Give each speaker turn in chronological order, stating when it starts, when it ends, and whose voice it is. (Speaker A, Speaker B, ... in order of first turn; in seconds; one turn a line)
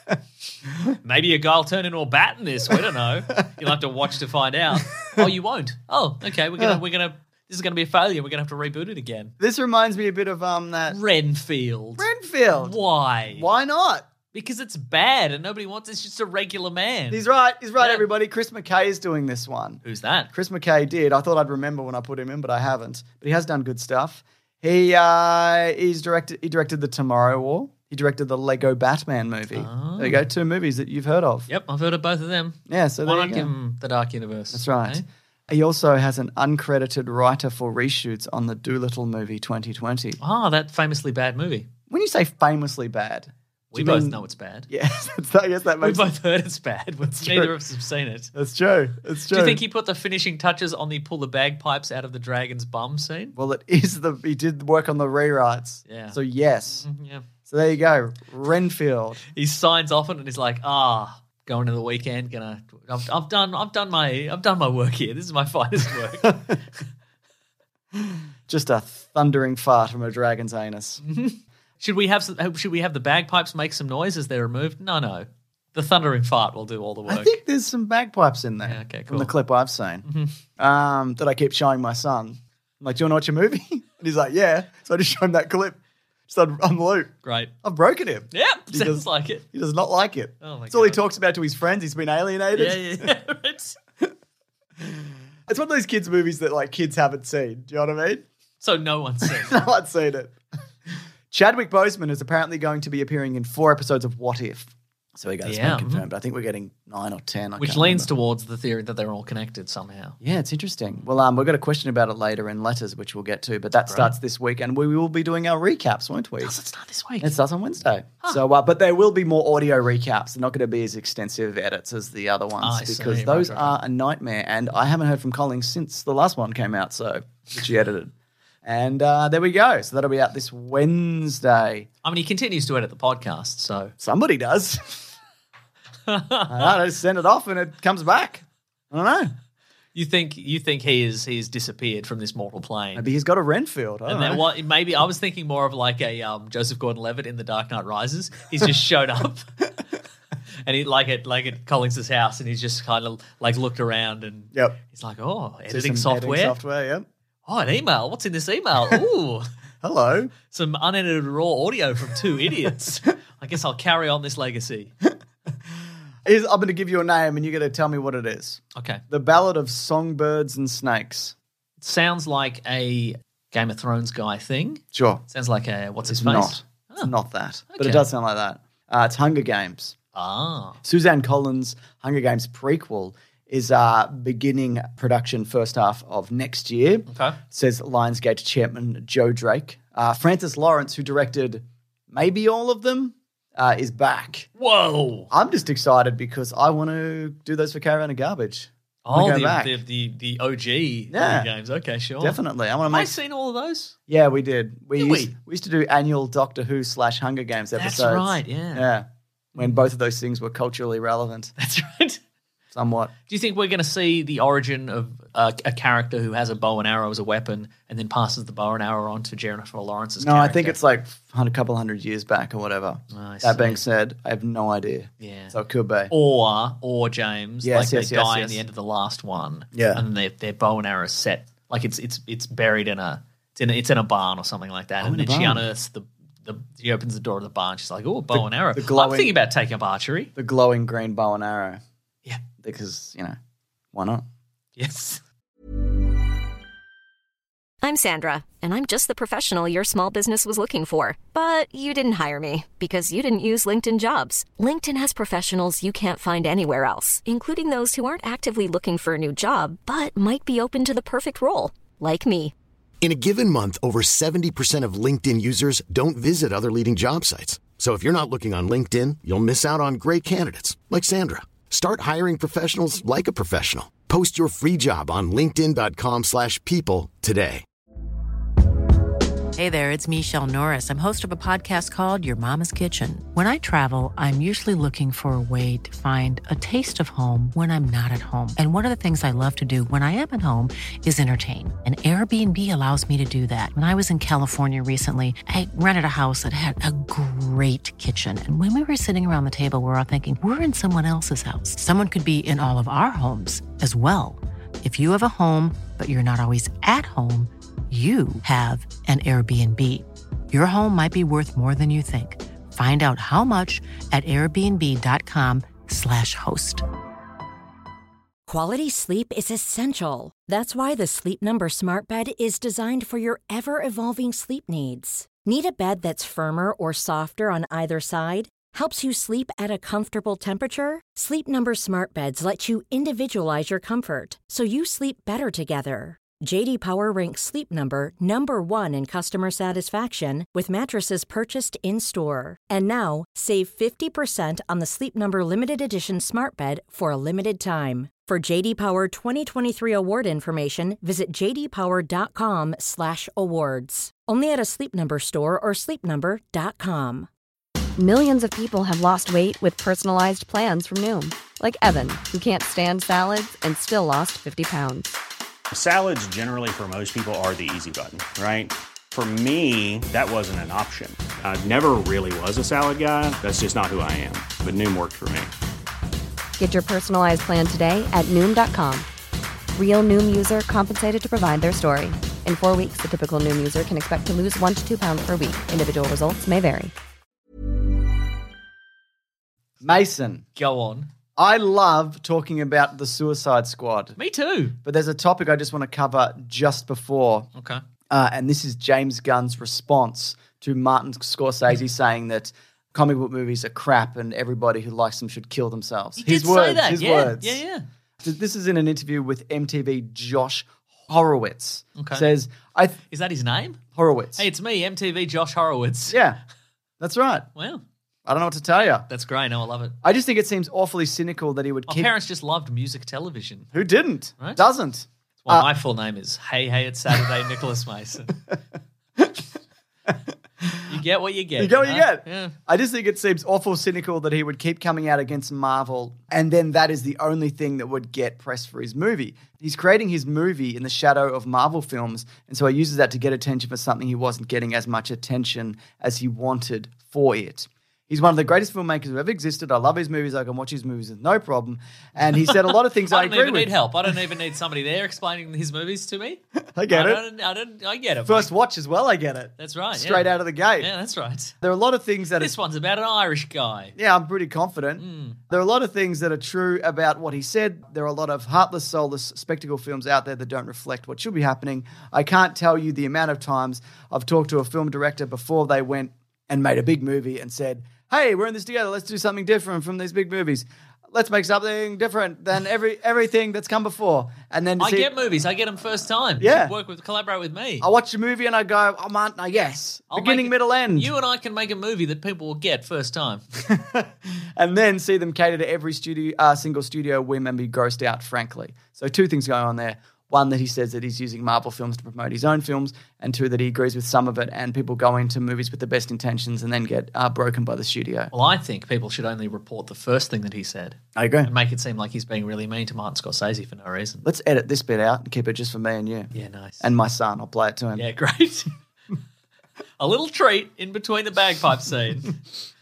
Speaker A: 0.9-9.3
Speaker B: 9.4-11.0
Speaker A: 10.9-13.5
Speaker B: 12.0-12.8
Speaker B: 13.3-14.1
Speaker A: 14.3-17.2
Speaker B: 17.1-19.8
Speaker A: 17.8-18.0
Speaker A: 19.8-20.3
Speaker B: 20.3-31.5
Speaker A: 29.5-30.2
Speaker A: 31.5-35.0
Speaker B: 32.7-33.5
Speaker B: 34.5-40.2
Speaker A: 40.2-41.7
Speaker B: 41.9-46.1
Speaker A: 43.7-44.7
Speaker A: 45.8-48.3
Speaker B: 47.2-47.5
Speaker B: 48.3-49.6
Speaker A: 49.3-53.3
Speaker B: 53.3-56.9
Speaker A: 55.9-56.2
Speaker A: 56.8-57.2
Speaker B: 57.5-59.2
Speaker A: 59.3-66.8
Speaker B: 67.9-71.0
Speaker A: 71.0-77.3
Speaker B: 77.1-80.0
Speaker A: 78.6-79.3
Speaker A: 80.0-80.3
Speaker B: 80.6-93.1
Speaker A: 87.2-87.5
Speaker A: 88.3-89.4
Speaker A: 90.4-91.0
Speaker A: 92.5-93.8
Speaker B: 94.8-98.2
Speaker A: 98.6-99.6
Speaker B: 99.2-100.3
Speaker B: 100.9-108.1
Speaker A: 105.4-106.0
Speaker A: 107.6-110.2
Speaker B: 110.2-116.5
Speaker A: 113.9-114.1
Speaker A: 116.4-117.3
Speaker B: 117.2-128.1
Speaker A: 122.6-123.8
Speaker B: 128.6-131.9
Speaker A: 132.0-133.9
Speaker B: 134.0-135.1
Speaker A: 136.1-136.8
Speaker B: 136.5-139.3
Speaker A: 139.9-143.0
Speaker B: 142.9-144.4
Speaker A: 144.1-149.7
Speaker A: 150.6-156.6
Speaker B: 154.5-154.8
Speaker B: 155.7-157.1
Speaker A: 157.4-159.4
Speaker B: 159.8-160.3
Speaker A: 160.5-164.9
Speaker B: 166.2-171.3
Speaker A: 168.7-169.0
Speaker A: 171.8-177.1
Speaker B: 174.9-175.2
Speaker B: 176.1-179.9
Speaker A: 177.7-178.1
Speaker A: 180.1-180.8
Speaker B: 180.8-194.5
Speaker A: 187.1-187.4
Speaker A: 194.6-195.3
Speaker B: 195.3-199.8
Speaker A: 199.1-203.9
Speaker B: 201.1-201.5
Speaker B: 202.2-203.1
Speaker B: 204.1-211.5
Speaker A: 204.9-205.3
Speaker A: 207.8-208.9
Speaker A: 211.6-212.2
Speaker B: 212.7-213.1
Speaker A: 213.3-220.8
Speaker B: 220.2-226.1
Speaker A: 223.1-223.8
Speaker A: 225.2-225.5
Speaker A: 226.1-240.3
Speaker B: 227.6-228.6
Speaker B: 229.7-230.0
Speaker B: 235.0-235.6
Speaker B: 238.3-239.3
Speaker B: 240.3-241.8
Speaker B: 242.6-243.3
Speaker B: 243.9-244.2
Speaker A: 244.8-245.2
Speaker C: 247.8-262.5
Speaker D: 263.0-277.6
Speaker E: 279.5-316.8
Speaker F: 318.5-357.3
Speaker G: 358.0-365.1
Speaker H: 365.7-375.5
Speaker G: 376.6-379.1
Speaker G: 379.7-386.9
Speaker B: 389.8-390.4
Speaker A: 390.6-391.1
Speaker B: 391.4-394.1
Speaker A: 394.2-394.8
Speaker B: 394.8-397.5
Speaker A: 397.6-397.8
Speaker B: 398.1-407.6
Speaker A: 406.2-407.8
Speaker B: 408.2-413.0
Speaker A: 412.0-412.2
Speaker A: 413.1-413.8
Speaker B: 413.9-414.4
Speaker A: 414.4-416.2
Speaker B: 416.1-416.4
Speaker B: 417.0-417.5
Speaker A: 417.6-417.8
Speaker B: 418.2-419.1
Speaker A: 419.1-419.9
Speaker B: 420.0-422.1
Speaker A: 421.9-423.7
Speaker B: 423.7-425.7
Speaker A: 424.4-424.6
Speaker A: 425.4-428.4
Speaker B: 429.2-429.4
Speaker B: 430.1-430.9
Speaker A: 430.9-432.6
Speaker B: 431.6-453.7
Speaker A: 452.4-458.5
Speaker B: 456.7-457.2
Speaker B: 458.2-460.9
Speaker A: 459.6-461.6
Speaker B: 461.6-462.5
Speaker A: 462.4-463.9
Speaker B: 463.9-485.1
Speaker A: 465.0-465.4
Speaker A: 484.8-487.9
Speaker B: 486.4-486.7
Speaker B: 487.8-491.1
Speaker A: 490.1-493.4
Speaker B: 493.6-508.3
Speaker A: 508.3-514.2
Speaker B: 511.1-511.5
Speaker B: 514.2-518.1
Speaker A: 516.3-516.9
Speaker A: 518.0-518.7
Speaker A: 520.0-522.4